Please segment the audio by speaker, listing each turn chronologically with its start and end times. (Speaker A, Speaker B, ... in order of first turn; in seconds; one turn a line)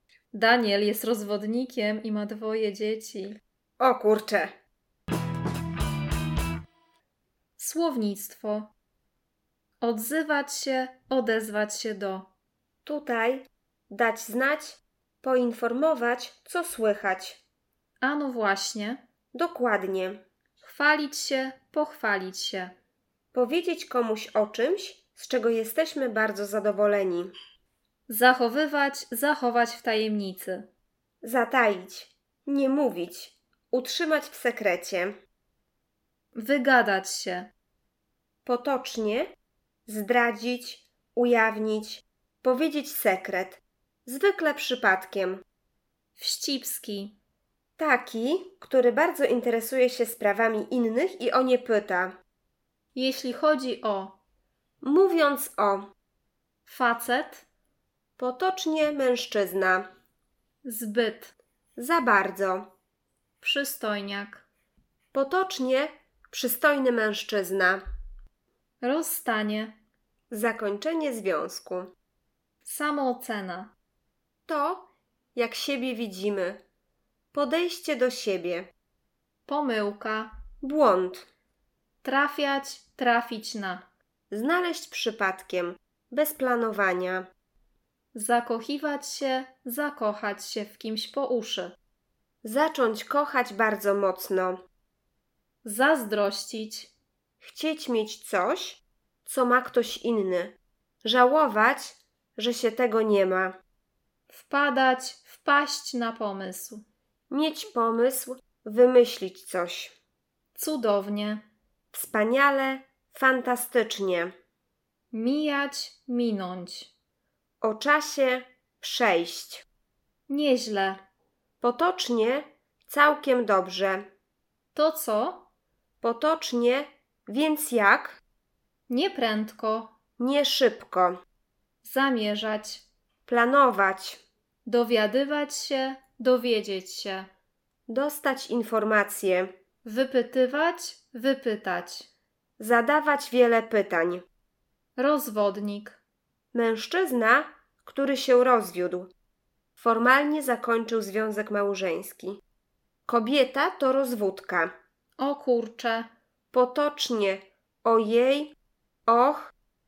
Speaker A: 0.3-3.4
Speaker B: 3.8-4.5
Speaker A: 7.6-8.7
Speaker A: 9.8-12.3
Speaker B: 12.8-17.4
Speaker A: 18.0-19.0
Speaker B: 19.3-20.2
Speaker A: 20.6-22.7
Speaker B: 23.3-27.3
Speaker A: 28.1-30.7
Speaker B: 31.2-35.1
Speaker A: 36.3-37.5
Speaker B: 38.5-39.3
Speaker B: 39.9-45.4
Speaker A: 46.2-47.1
Speaker B: 47.8-52.1
Speaker A: 52.9-54.2
Speaker B: 54.8-55.9
Speaker A: 56.6-57.4
Speaker B: 58.2-59.9
Speaker A: 60.6-61.3
Speaker B: 61.8-62.7
Speaker A: 63.4-64.4
Speaker B: 65.1-67.8
Speaker A: 68.8-69.8
Speaker B: 70.3-71.9
Speaker A: 72.6-73.7
Speaker B: 74.5-76.6
Speaker B: 77.3-78.7
Speaker A: 79.5-80.3
Speaker B: 80.6-81.3
Speaker A: 82.0-83.8
Speaker B: 84.3-87.3
Speaker A: 88.1-91.8
Speaker B: 92.4-94.6
Speaker A: 95.6-96.9
Speaker B: 97.4-103.5
Speaker A: 104.3-106.8
Speaker B: 107.3-109.9
Speaker A: 110.5-111.4
Speaker B: 111.9-114.3
Speaker A: 115.1-116.9
Speaker B: 117.6-119.6
Speaker A: 120.3-121.0
Speaker B: 121.6-124.0
Speaker A: 124.7-125.5
Speaker B: 126.0-128.2
Speaker A: 128.9-129.9
Speaker B: 130.2-131.2
Speaker A: 131.8-132.8
Speaker B: 133.3-134.2
Speaker A: 134.6-137.3
Speaker B: 137.9-139.5
Speaker A: 139.8-142.1
Speaker B: 142.6-144.2
Speaker A: 145.0-146.0
Speaker B: 146.5-149.1
Speaker B: 149.8-152.4
Speaker B: 153.1-154.7
Speaker A: 155.2-156.1
Speaker B: 156.5-158.5
Speaker B: 159.1-159.5